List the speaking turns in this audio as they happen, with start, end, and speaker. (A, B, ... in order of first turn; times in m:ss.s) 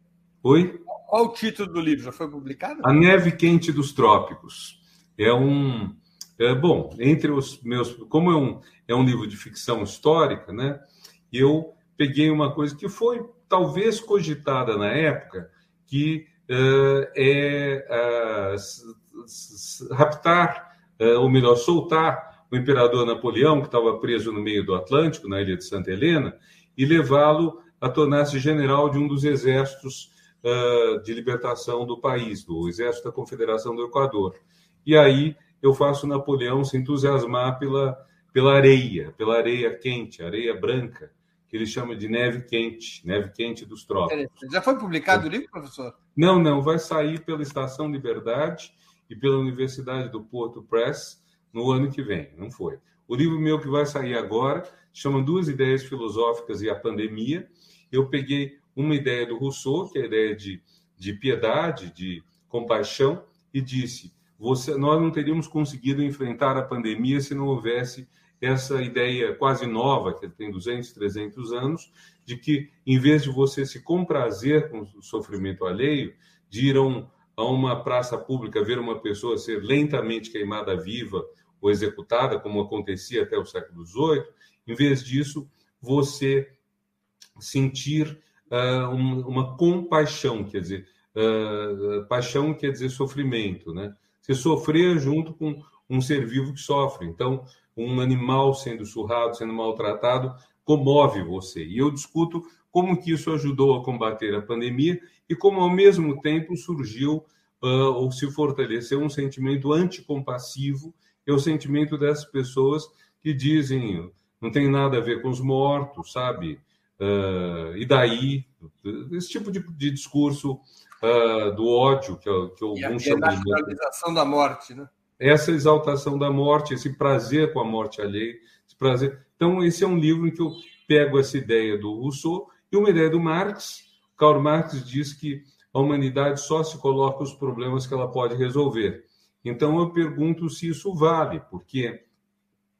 0:00.4-0:00.8 A
0:00.9-0:02.9 B
0:02.8-0:44.5 A
0:44.1-0:46.0 B
0:46.2-1:26.6 A
1:27.4-2:03.7 A
2:02.8-2:04.9 B
2:05.2-2:22.0 A